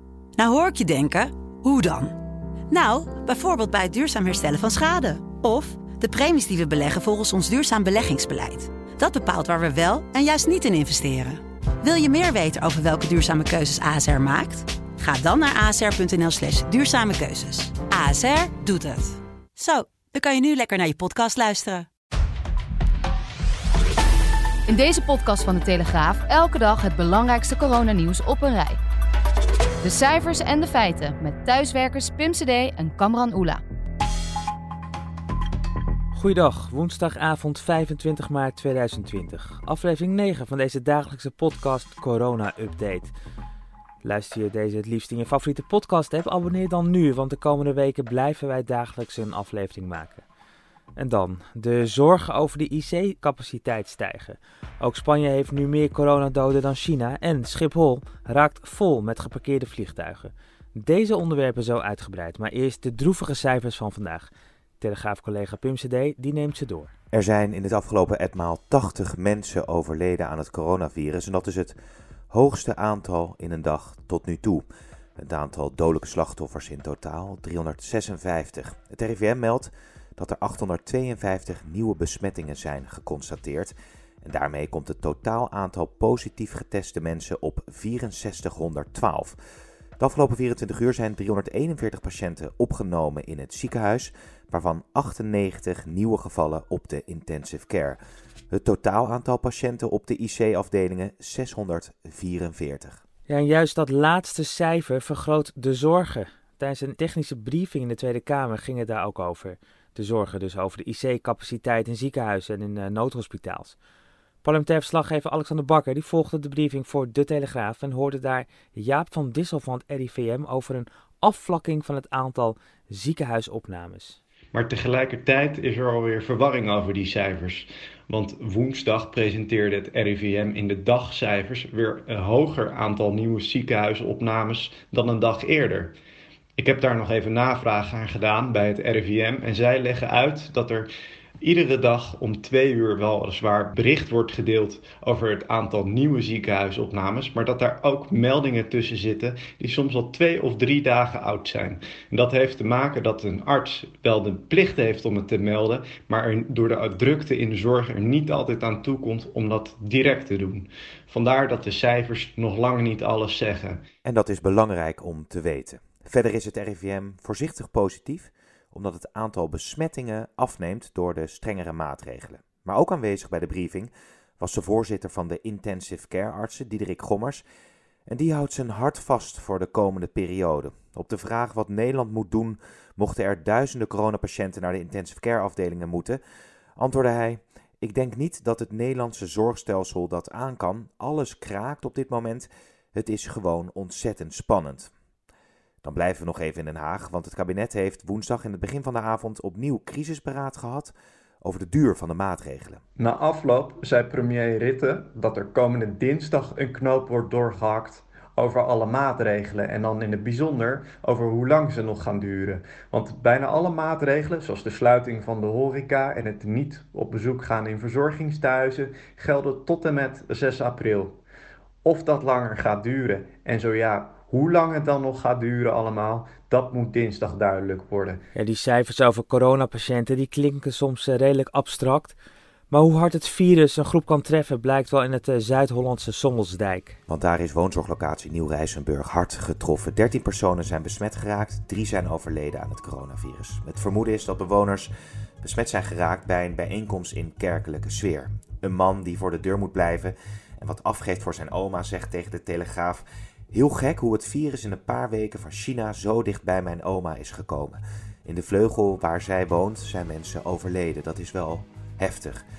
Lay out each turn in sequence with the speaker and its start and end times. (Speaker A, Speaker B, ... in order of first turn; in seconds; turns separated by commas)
Speaker A: 0.4-2.2, Speaker A: 2.7-21.9, Speaker B: 24.7-28.8, Speaker B: 29.8-33.6, Speaker C: 36.1-43.1, Speaker C: 44.0-50.2, Speaker C: 51.0-66.9, Speaker D: 67.1-71.8, Speaker D: 72.3-74.7, Speaker D: 75.2-89.4, Speaker D: 90.0-98.0, Speaker D: 98.5-103.0, Speaker C: 103.3-113.8, Speaker C: 114.4-124.2, Speaker E: 124.5-135.9, Speaker E: 136.6-140.9, Speaker E: 141.4-163.8, Speaker D: 164.1-177.4, Speaker D: 178.1-186.2, Speaker D: 186.8-194.9, Speaker D: 195.8-202.8, Speaker E: 203.0-221.2, Speaker E: 221.8-228.2, Speaker C: 228.3-232.2, Speaker C: 232.7-237.0, Speaker D: 237.1-244.9, Speaker D: 245.4-262.4